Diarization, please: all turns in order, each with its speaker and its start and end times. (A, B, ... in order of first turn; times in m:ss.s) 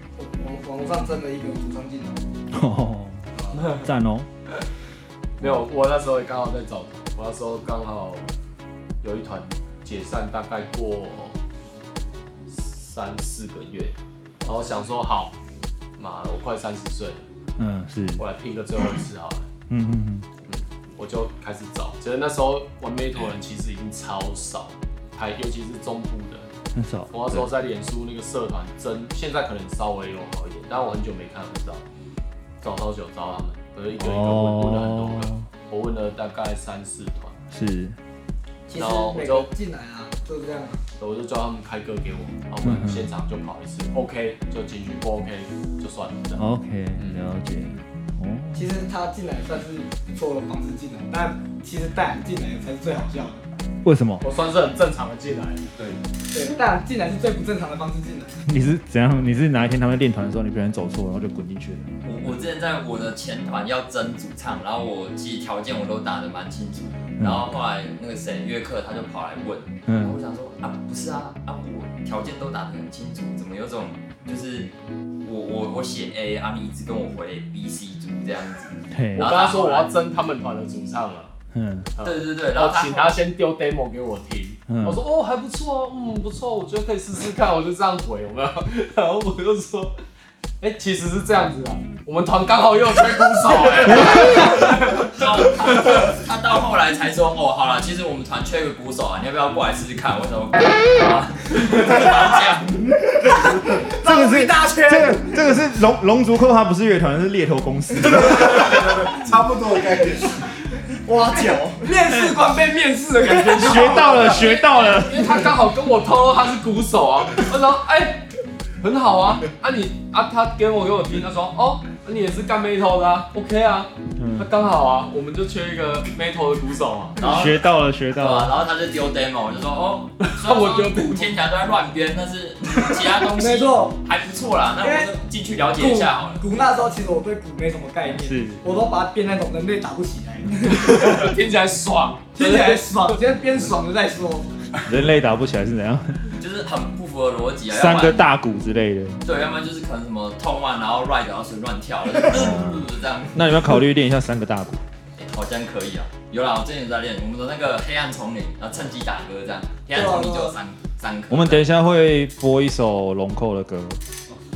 0:00.2-0:02.2 A
0:02.5-0:04.3 B
0:03.3-0:03.8 A
0:05.4-0:08.3 C
0:05.4-0:05.7 B
0:09.0-0:11.4 C
0:12.5-0:15.4 C
0:14.4-0:14.9 A
0:16.0-0:17.2 C
0:17.6-0:18.3 B
0:18.2-0:19.5 C
0:19.7-0:20.3 B
0:20.5-0:26.5 C
0:26.8-0:27.5 B
0:27.1-0:31.8 C
0:32.6-0:37.4 C
0:34.0-0:35.5 B
0:37.5-0:38.0 B
0:38.7-0:40.8 A
0:38.7-0:39.5 C
0:41.0-0:46.4 C
0:42.6-0:43.1 B
0:46.4-0:48.7 B
0:47.0-0:47.2 C
0:48.6-0:53.4 A
0:53.8-0:54.2 B
0:54.2-0:55.7 C
0:56.3-0:58.4 A
0:58.5-1:01.9 B
1:02.0-1:14.7 D
1:07.2-1:07.6 B
1:09.9-1:10.2 B
1:15.2-1:19.9 D
1:18.9-1:19.3 B
1:19.2-1:21.3 C
1:21.5-1:21.9 B
1:22.0-1:30.0 C
1:22.0-1:23.2 D
1:24.7-1:25.0 B
1:30.6-1:35.2 C
1:34.2-1:42.8 D
1:44.0-1:48.8 B
1:44.0-1:45.4 E
1:48.1-1:50.4 F
1:51.0-1:51.9 E
1:51.3-1:54.5 A
1:53.3-1:55.5 B
1:53.7-1:58.3 C
1:58.8-2:07.2 C
2:04.2-2:04.5 B
2:07.2-2:16.5 D
2:07.2-2:08.6 B
2:10.2-2:11.4 C
2:13.4-2:14.0 A
2:14.8-2:15.2 A
2:15.8-2:21.2 A
2:18.1-2:18.6 B
2:20.7-2:23.2 C
2:22.4-2:24.5 A
2:24.8-2:26.2 B
2:26.4-2:28.3 D
2:27.7-2:29.2 B
2:29.2-2:33.6 D
2:32.2-2:34.8 B
2:35.2-2:41.7 D
2:39.9-2:40.6 A
2:41.3-2:44.0 B